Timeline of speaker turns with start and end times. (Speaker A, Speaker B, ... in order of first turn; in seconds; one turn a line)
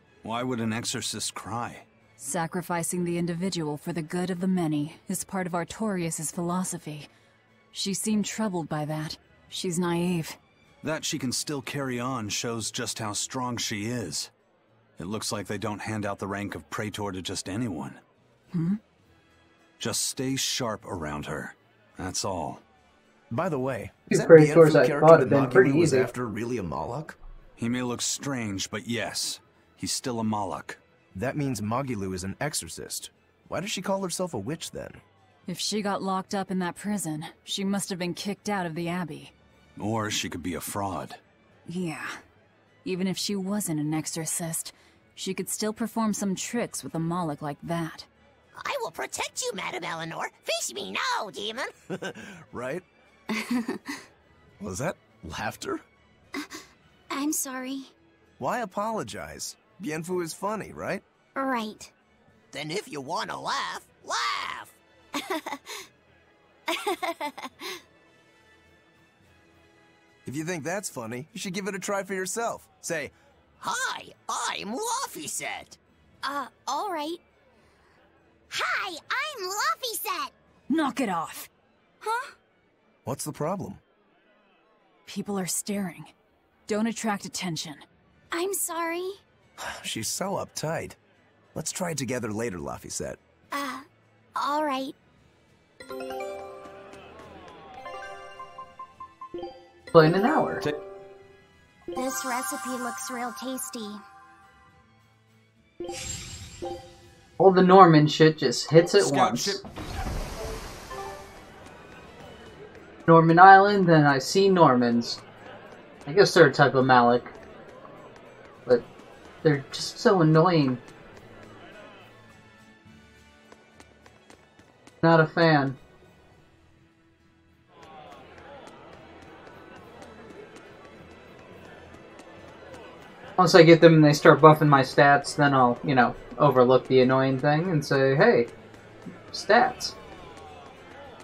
Speaker A: 0.2-1.9
Speaker B: 2.2-7.1
Speaker B: 7.7-10.4
Speaker A: 10.8-14.3
Speaker A: 15.0-18.0
Speaker B: 18.5-18.8
Speaker A: 19.8-22.6
Speaker C: 23.3-27.2
Speaker D: 24.1-26.1
Speaker A: 27.6-30.8
Speaker C: 31.1-35.0
Speaker B: 35.5-39.3
Speaker A: 39.8-41.2
Speaker B: 41.7-42.2
Speaker B: 42.8-48.1
Speaker E: 48.5-51.7
Speaker C: 51.9-52.8
Speaker F: 53.3-53.8
Speaker C: 54.6-55.8
Speaker F: 57.1-57.9
Speaker C: 58.4-61.0
Speaker F: 61.4-61.9
Speaker E: 62.5-64.8
Speaker F: 65.2-65.6
Speaker C: 70.2-73.1
Speaker E: 73.6-75.8
Speaker F: 76.2-77.2
Speaker F: 78.5-80.3
Speaker B: 80.7-81.5
Speaker F: 82.0-82.3
Speaker C: 83.0-83.8
Speaker B: 85.1-86.1
Speaker B: 86.7-87.8
Speaker F: 88.3-89.2
Speaker C: 89.6-91.0
Speaker C: 91.5-93.2
Speaker F: 93.5-94.9
Speaker D: 99.9-100.6
Speaker F: 101.9-104.0
Speaker D: 107.4-109.6
Speaker A: 109.0-109.6
Speaker D: 113.1-115.2
Speaker D: 116.0-117.3
Speaker D: 119.4-120.8
Speaker D: 125.0-125.8
Speaker D: 133.4-138.5
Speaker D: 139.3-139.9